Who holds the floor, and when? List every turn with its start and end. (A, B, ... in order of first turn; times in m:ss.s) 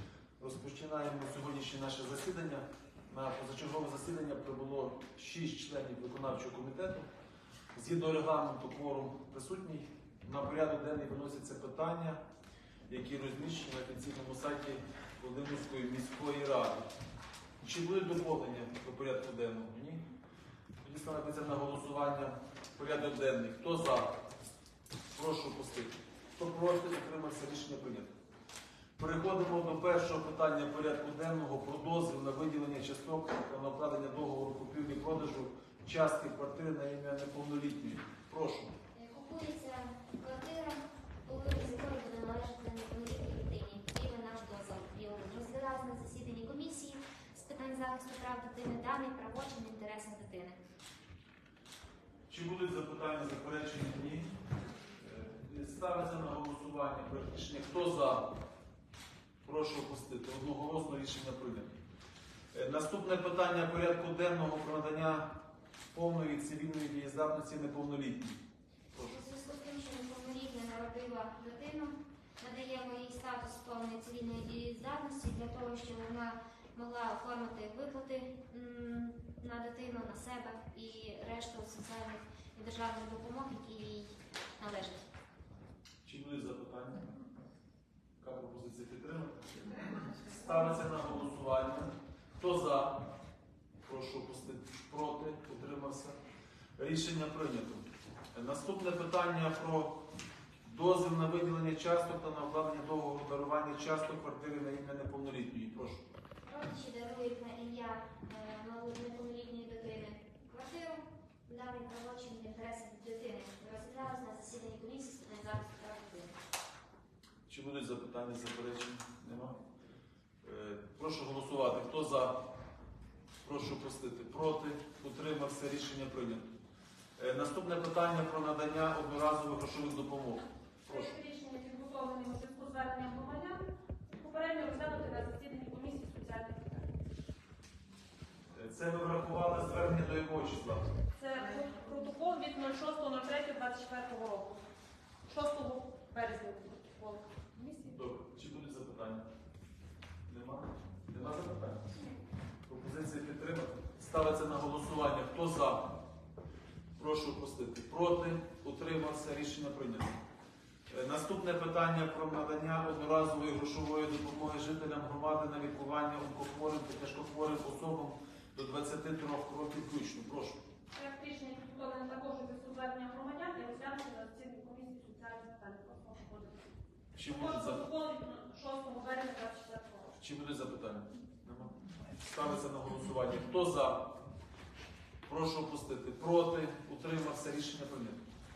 0:00.4-0:07.1 A
0:07.7-0:12.2 A
0:12.9-0:16.8 A
0:17.6-0:20.0 A
0:20.8-0:24.1 A
0:25.1-0:28.1 A
0:29.0-0:38.7 A
0:38.9-0:50.6 B
0:52.3-0:54.3 A
0:55.0-0:58.3 A
0:59.4-1:01.8 A
1:02.5-1:05.3 A
1:05.9-1:08.4 A
1:09.0-1:25.1 B
1:26.0-1:27.1 A
1:28.2-1:29.4 A
1:30.1-1:33.1 A
1:33.8-1:36.2 A
1:36.8-1:40.0 A
1:40.6-1:46.0 A
1:46.4-1:56.3 B
1:57.5-1:59.6 A
2:00.4-2:02.4 A
2:03.4-2:06.5 A
2:07.2-2:11.1 A
2:10.9-2:16.9 C
2:18.5-2:20.9 A
2:21.1-2:24.6 C
2:25.3-2:28.0 C
2:27.9-2:29.2 A
2:30.3-2:31.9 A
2:32.6-2:36.0 A
2:37.0-2:40.2 A
2:40.9-2:50.6 A
2:50.9-3:00.2 C
2:57.2-2:57.8 A
3:00.2-3:04.1 A
3:05.2-3:08.2 A